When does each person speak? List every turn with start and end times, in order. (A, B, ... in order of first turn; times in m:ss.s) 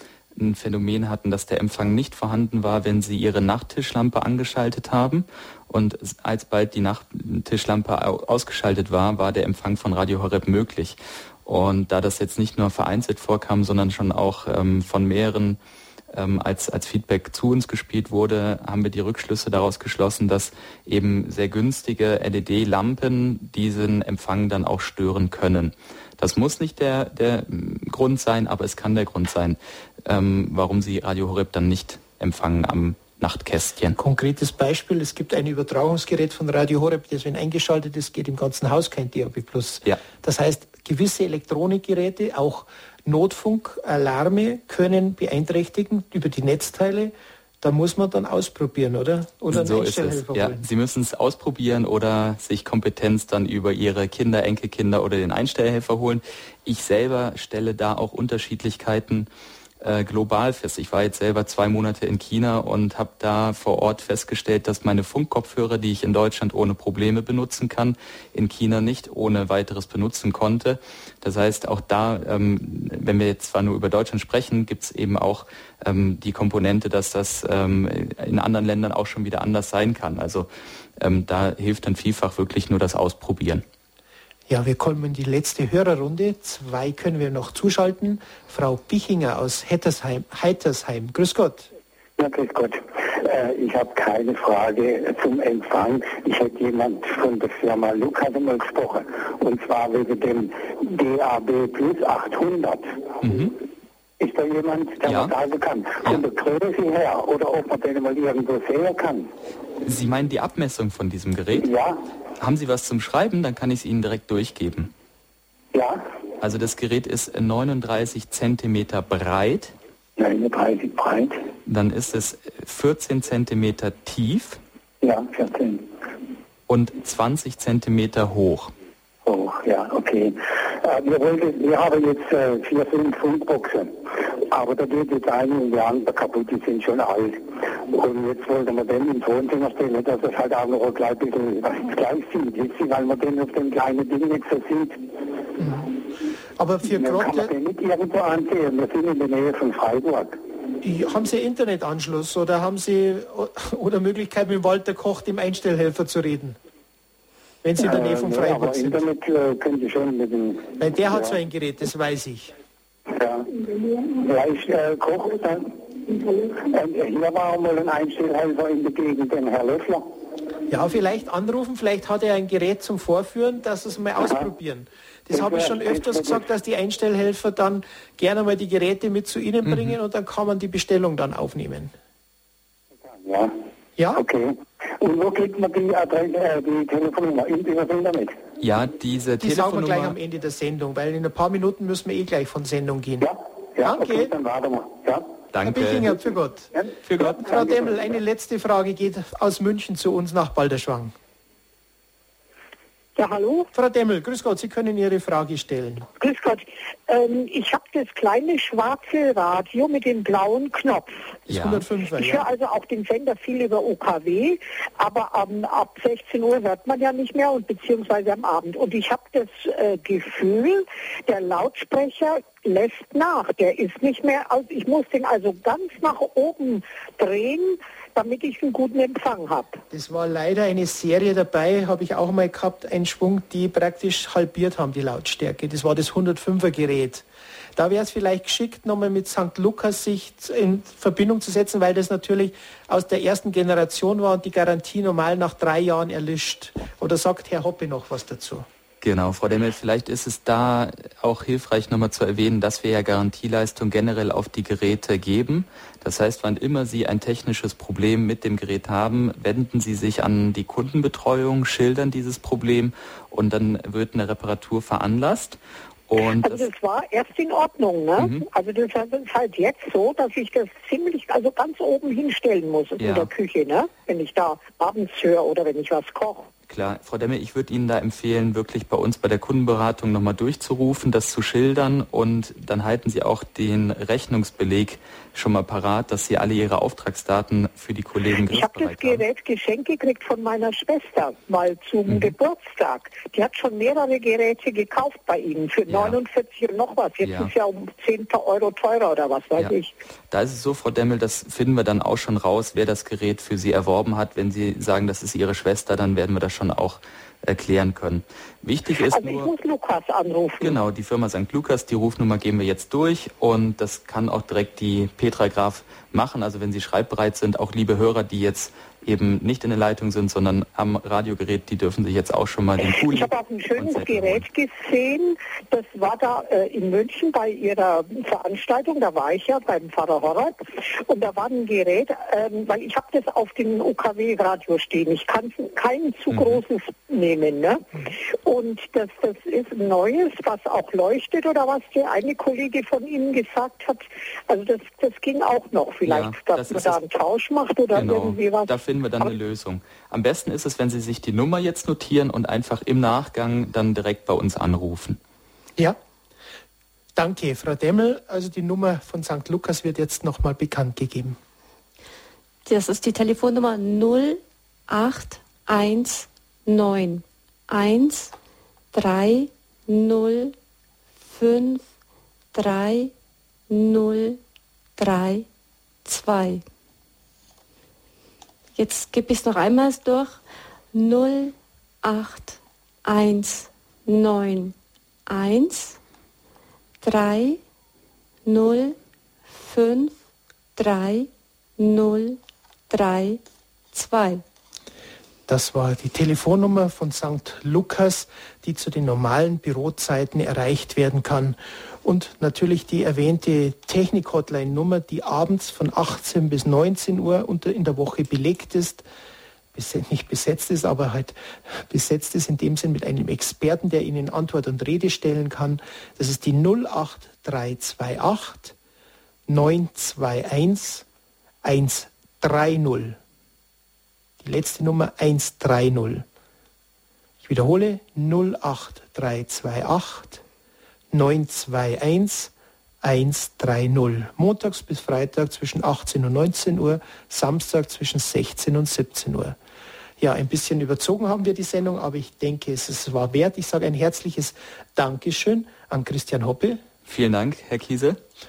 0:00.3-0:15.6 A
0:16.1-0:34.0 A
0:34.0-0:50.6 B
0:49.5-0:59.3 A
0:59.8-1:23.6 A
1:24.5-1:31.7 B
1:32.2-1:42.9 C
1:43.2-1:43.6 A
1:44.2-1:49.3 C
1:45.0-1:45.3 A
1:49.8-1:51.7 A
1:51.6-1:52.0 C
1:52.4-1:54.9 A
1:55.7-1:56.0 C
1:56.4-1:59.7 A
2:00.2-2:01.4 C
2:01.6-2:04.6 A
2:05.0-2:05.9 C
2:06.7-2:08.7 A
2:09.2-2:14.0 C
2:14.5-2:25.0 C
2:25.6-2:25.9 B
2:26.6-2:27.5 B
2:26.9-2:30.4 C
2:30.8-2:36.6 B
2:37.6-2:39.0 B
2:37.8-2:41.3 C
2:40.8-2:42.5 B
2:43.1-2:43.5 C
2:44.1-2:45.7 C
2:46.6-2:50.0 C
2:50.7-3:01.9 B
2:54.2-2:54.5 C
2:55.3-2:56.4 C
2:59.6-2:59.9 A
3:03.1-3:03.5 C
3:04.0-3:04.2 B
3:04.1-3:08.3 C
3:08.6-3:10.2 A
3:09.4-3:13.3 B
3:13.2-3:15.2 C
3:13.8-3:14.3 B
3:15.5-3:16.1 A
3:15.6-3:21.1 B
3:17.1-3:17.4 A
3:17.4-3:17.9 C
3:23.2-3:23.7 D
3:23.7-3:26.1 B
3:26.2-3:31.4 D
3:31.5-3:32.5 B
3:31.5-3:31.8 A
3:32.1-3:49.8 D
3:49.9-3:57.2 B
3:57.8-4:08.6 B
4:09.0-4:26.7 A
4:26.4-4:36.5 D
4:28.2-4:28.5 A
4:33.0-4:33.3 A
4:36.7-4:49.2 A
4:48.4-5:00.0 D
4:55.9-4:56.2 A
4:57.2-4:57.5 A
5:00.3-5:09.5 A
5:09.1-5:10.8 D
5:10.6-5:24.4 A
5:22.9-5:49.3 D
5:36.3-5:36.6 A
5:46.0-5:47.0 A
5:47.9-5:55.2 A
5:57.2-6:01.4 B
6:02.6-6:08.3 E
6:08.9-6:10.5 E
6:11.3-6:11.8 E
6:12.5-6:13.1 E
6:13.7-6:14.4 E
6:15.0-6:15.4 E
6:16.0-6:16.6 E
6:18.8-6:20.4 E
6:20.9-6:24.7 E
6:25.3-6:26.0 E
6:27.0-6:27.6 E
6:28.4-6:29.0 E
6:29.5-6:30.1 E
6:30.8-6:32.4 E
6:32.9-6:33.4 E
6:33.9-6:34.4 E
6:35.5-6:49.0 B
6:49.7-6:58.7 B
6:59.5-7:01.0 B
7:01.6-7:03.2 B
7:04.4-7:06.2 B
7:07.4-7:10.4 B
7:11.1-7:19.6 B
7:20.2-7:26.8 B
7:27.0-7:28.2 A